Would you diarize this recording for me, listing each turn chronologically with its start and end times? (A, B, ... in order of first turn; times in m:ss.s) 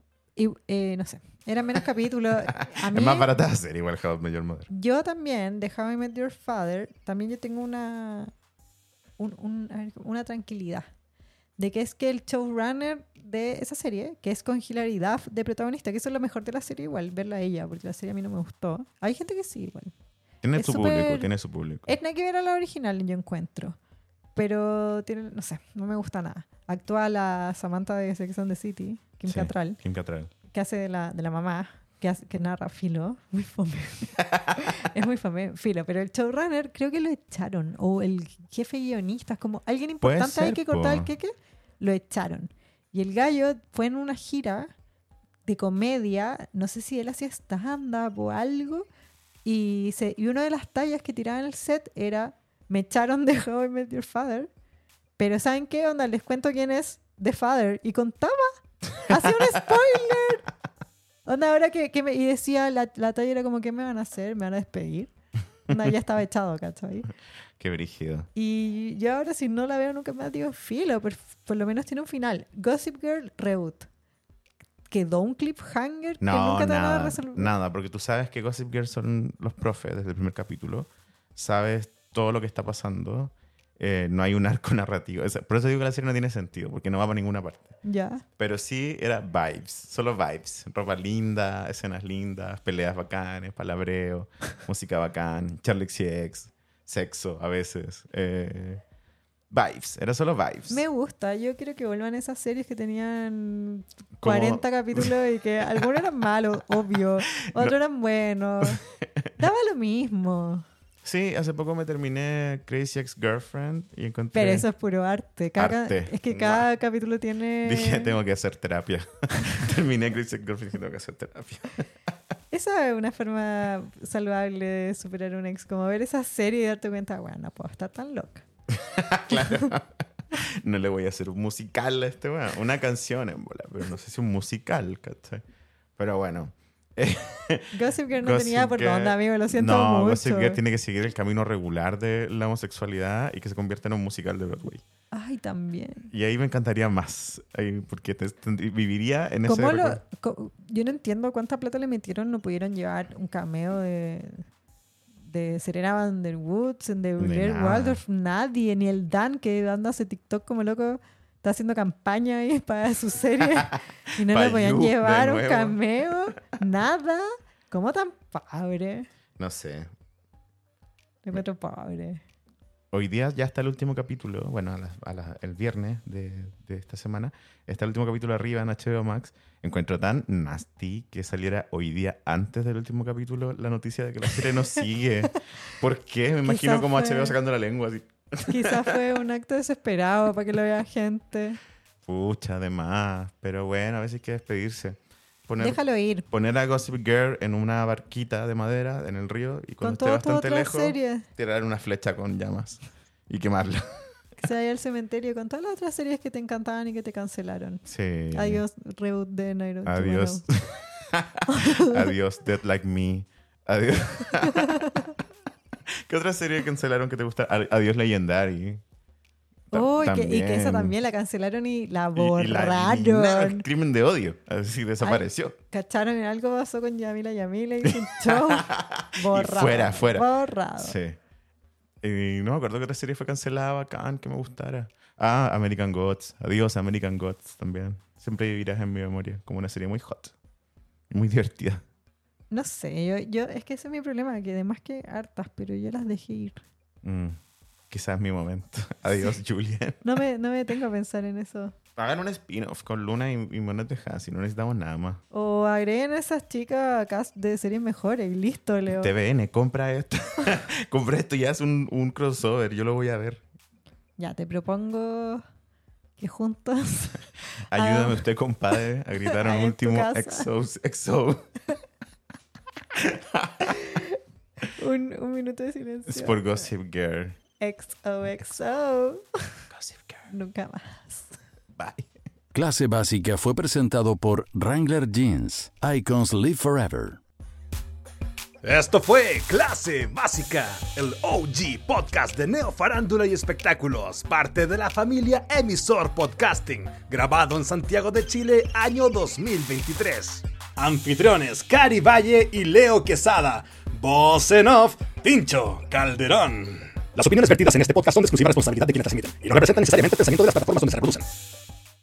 0:00.4-0:03.3 A
0:02.5-0:04.7 B
0:04.7-0:08.3 A
0:09.2-0:10.9 A
0:11.6-0:19.9 A
0:20.4-0:21.9 B
0:20.5-0:21.3 A
0:21.8-0:23.8 A
0:24.4-0:29.8 A
0:29.2-0:30.3 B
0:30.5-0:44.7 A
0:40.0-0:41.1 B
0:45.4-0:48.9 A
0:49.4-0:54.5 A
0:55.2-1:00.4 A
0:59.1-0:59.5 B
1:01.2-1:05.1 A
1:05.7-1:07.1 A
1:07.6-1:08.3 B
1:08.3-1:13.9 A
1:14.9-1:17.5 A
1:16.2-1:27.7 B
1:27.8-1:28.2 A
1:28.4-1:38.8 B
1:39.5-1:40.8 B
1:40.7-1:48.8 A
1:44.2-1:45.1 B
1:48.6-1:49.3 B
1:49.4-1:50.6 A
1:51.0-1:54.7 B
1:54.3-1:58.1 A
1:55.6-1:56.6 B
1:57.6-2:01.8 B
2:02.5-2:08.4 A
2:08.7-2:15.4 B
2:09.3-2:09.6 A
2:16.0-2:24.8 B
2:17.7-2:20.6 A
2:25.1-2:26.1 A
2:26.1-2:30.0 B
2:29.5-2:34.4 A
2:35.2-2:49.1 A
2:37.2-2:38.0 B
2:43.4-2:45.8 B
2:49.4-2:49.9 B
2:51.2-2:52.2 A
2:52.9-3:08.9 B
3:06.4-3:07.4 A
3:08.5-3:11.6 A
3:12.0-3:15.8 B
3:15.6-3:16.2 A
3:16.3-3:24.0 B
3:19.8-3:21.2 A
3:24.4-3:30.4 A
3:27.8-3:28.6 B
3:29.8-3:35.1 B
3:31.4-3:32.1 A
3:34.5-3:35.1 A
3:35.9-3:38.8 B
3:39.7-3:40.9 B
3:39.7-3:43.6 A
3:42.1-3:45.6 B
3:45.0-3:51.0 A
3:47.8-3:51.2 B
3:52.0-4:00.3 B
4:01.1-4:01.8 B
4:02.5-4:06.6 A
4:07.0-4:07.4 B
4:07.9-4:10.2 B
4:10.0-4:11.7 A
4:12.0-4:15.2 B
4:15.3-4:19.1 A
4:19.0-4:23.4 B
4:24.2-4:25.4 A
4:26.2-4:28.2 A
4:27.7-4:31.5 B
4:29.3-4:30.5 A
4:32.9-4:33.8 B
4:33.7-4:36.6 A
4:36.1-4:37.4 B
4:37.6-4:39.2 A
4:39.7-4:40.2 B
4:40.3-4:41.4 A
4:41.8-4:42.1 B
4:42.5-4:47.2 C
4:48.6-5:11.3 D